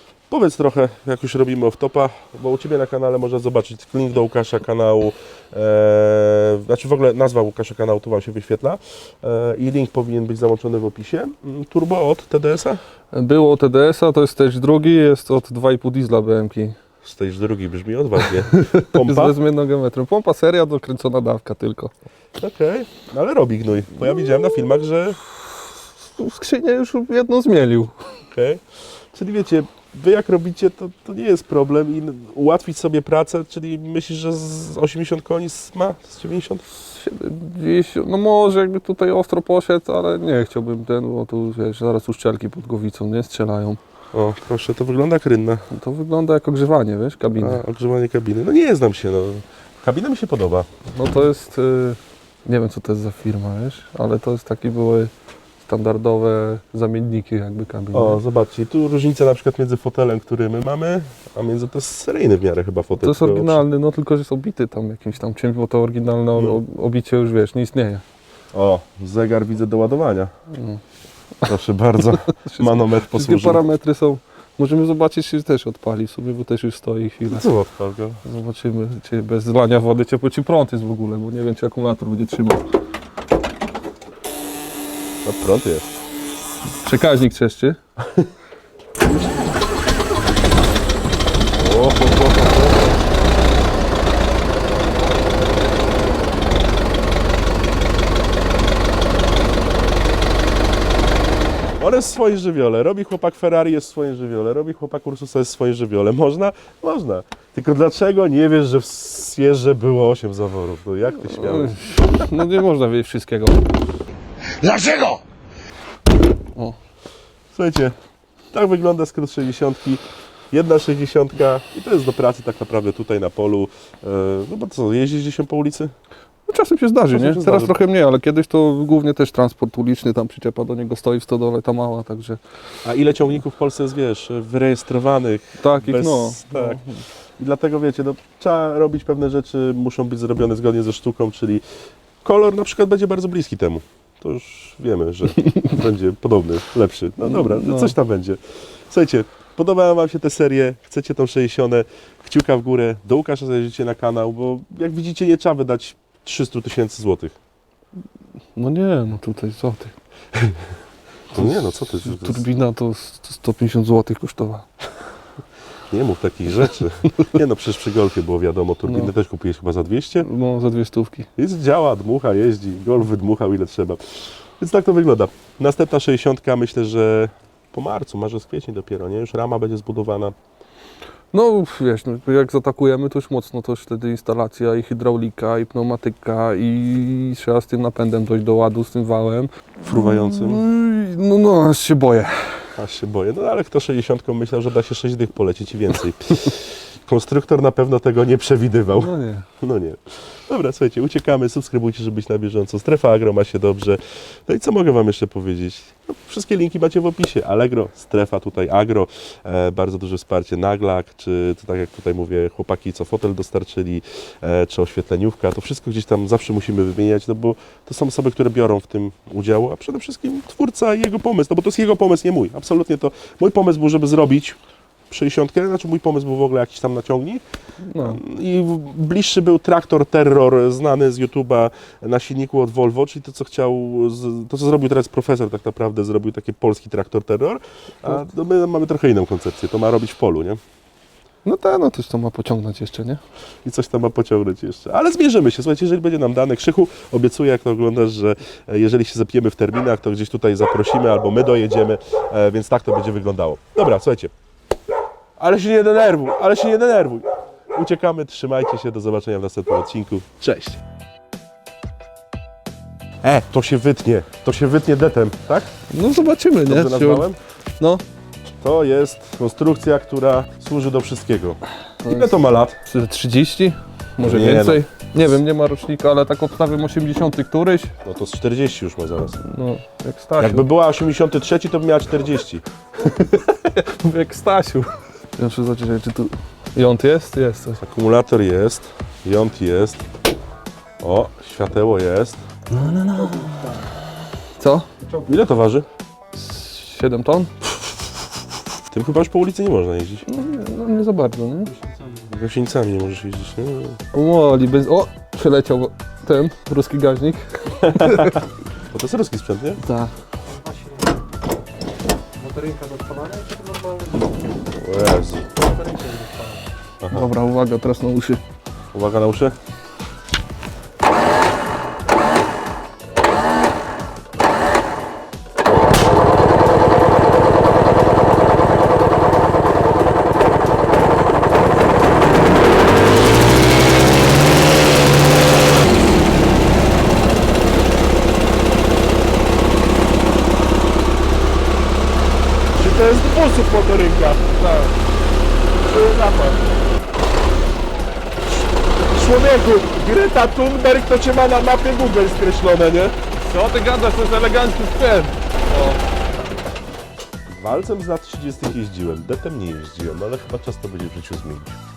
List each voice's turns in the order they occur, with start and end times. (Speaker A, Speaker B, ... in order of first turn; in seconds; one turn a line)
Speaker A: 0.3-12.8
Speaker B: 13.1-16.8
Speaker A: 17.0-19.4
Speaker B: 18.6-21.9
Speaker A: 22.4-25.2
Speaker B: 26.2-27.9
Speaker A: 28.3-28.6
Speaker A: 29.1-36.6
Speaker B: 36.9-43.8
Speaker A: 44.1-45.6
Speaker B: 45.7-47.6
Speaker A: 47.4-50.7
Speaker B: 50.9-55.1
Speaker B: 55.6-58.2
Speaker A: 57.9-63.6
Speaker B: 63.0-68.0
Speaker A: 68.5-70.3
Speaker B: 70.5-70.8
Speaker A: 71.5-73.6
Speaker B: 72.3-77.5
Speaker A: 77.3-78.2
Speaker B: 78.2-82.6
Speaker A: 85.2-85.9
Speaker B: 86.8-87.8
Speaker A: 91.5-93.0
Speaker A: 101.8-112.2
Speaker B: 111.2-113.7
Speaker A: 114.6-115.1
Speaker A: 117.5-117.9
Speaker A: 118.5-125.9
Speaker B: 126.5-132.4
Speaker A: 127.1-127.8
Speaker A: 132.8-136.8
Speaker B: 135.6-137.0
Speaker A: 137.4-141.6
Speaker A: 142.2-157.3
Speaker B: 147.3-147.9
Speaker B: 158.6-159.9
Speaker A: 160.3-160.6
Speaker A: 161.3-162.4
Speaker B: 161.3-164.7
Speaker A: 165.9-170.3
Speaker B: 168.8-169.1
Speaker B: 170.2-171.3
Speaker A: 171.4-180.3
Speaker B: 181.3-192.7
Speaker A: 189.8-190.6
Speaker A: 192.8-224.6
Speaker B: 198.9-199.4
Speaker A: 225.1-227.4
Speaker B: 227.8-228.2
Speaker A: 228.0-240.6
Speaker B: 241.4-243.2
Speaker A: 243.6-254.3
Speaker A: 255.4-260.8
Speaker A: 263.2-265.7
Speaker B: 265.9-267.3
Speaker A: 266.6-267.4
Speaker A: 268.6-272.8
Speaker B: 272.0-277.9
Speaker A: 274.2-274.8
Speaker A: 278.0-279.4
Speaker B: 279.4-280.6
Speaker A: 280.4-282.6
Speaker B: 283.0-287.8
Speaker A: 287.8-290.0
Speaker A: 291.0-292.4
Speaker B: 292.7-293.8
Speaker B: 294.6-294.9
Speaker A: 295.2-295.9
Speaker B: 296.3-297.5
Speaker A: 298.9-300.2
Speaker B: 300.3-301.8
Speaker A: 302.2-304.0
Speaker B: 304.1-308.4
Speaker A: 307.8-308.4
Speaker A: 308.9-309.8
Speaker B: 309.8-311.0
Speaker B: 312.4-314.4
Speaker A: 314.7-315.5
Speaker B: 315.6-316.6
Speaker A: 317.0-317.3
Speaker B: 317.1-318.4
Speaker A: 318.9-319.6
Speaker A: 342.7-344.7
Speaker B: 344.6-344.9
Speaker A: 345.8-346.6
Speaker A: 348.4-353.1
Speaker B: 353.4-356.1
Speaker A: 357.5-361.8